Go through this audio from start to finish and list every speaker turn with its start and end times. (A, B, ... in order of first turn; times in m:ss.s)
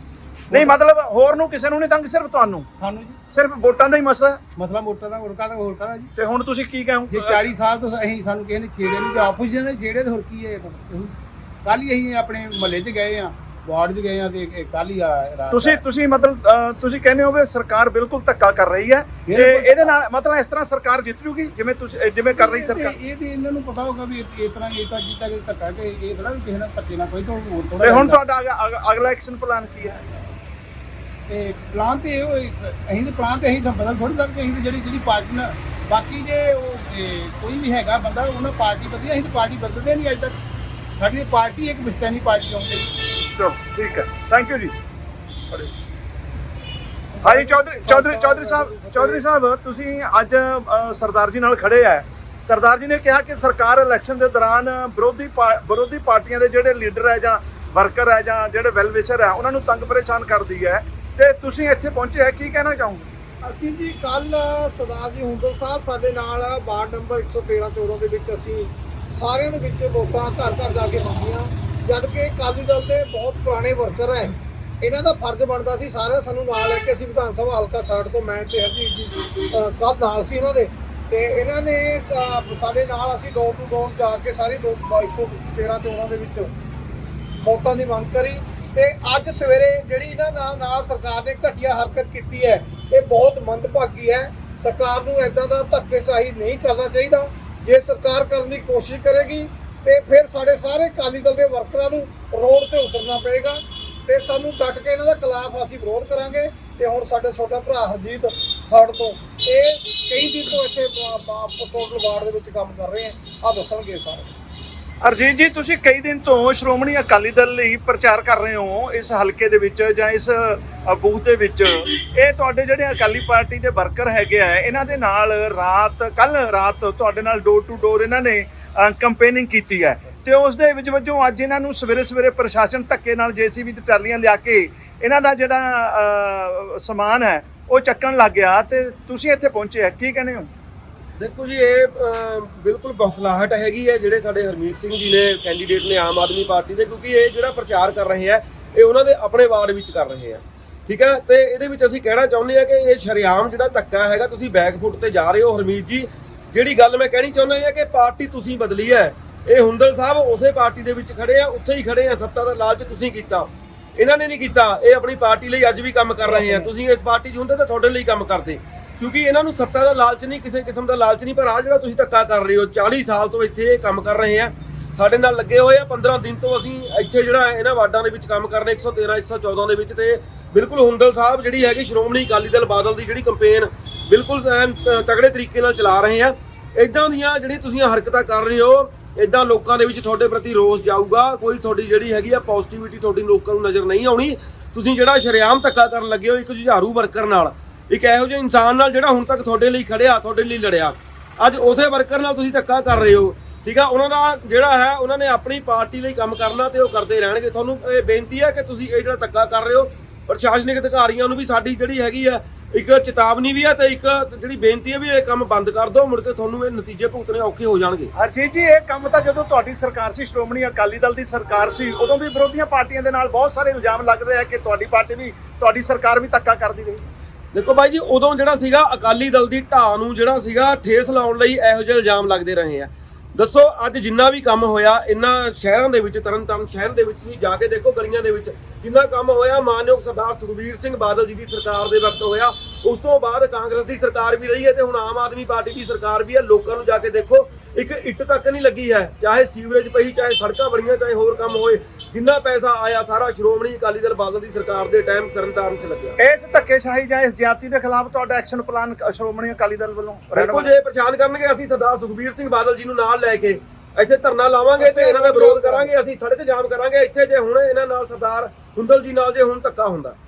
0:00.5-0:00.8 A
0:00.5-0:02.7 B
0:02.8-0:03.2 A
0:03.3-0:04.4 B
0:04.6-0:06.1 A
0:06.2-0:07.4 B
0:07.1-0:15.8 A
0:15.5-0:23.0 B
0:19.3-0:19.9 A
0:22.4-0:28.2 A
0:27.8-0:30.0 B
0:31.3-0:40.4 A
0:41.0-0:42.9 A
0:43.2-0:44.7 B
0:47.2-0:49.2 C
0:47.2-1:03.1 B
1:03.4-1:26.5 C
1:27.4-1:54.4 C
1:55.0-2:20.5 B
2:21.2-3:38.1 D
2:46.3-2:46.7 A
3:38.2-3:47.1 B
3:47.5-4:16.2 D
4:16.2-4:20.7 B
4:20.3-4:30.2 D
4:24.8-4:25.9 C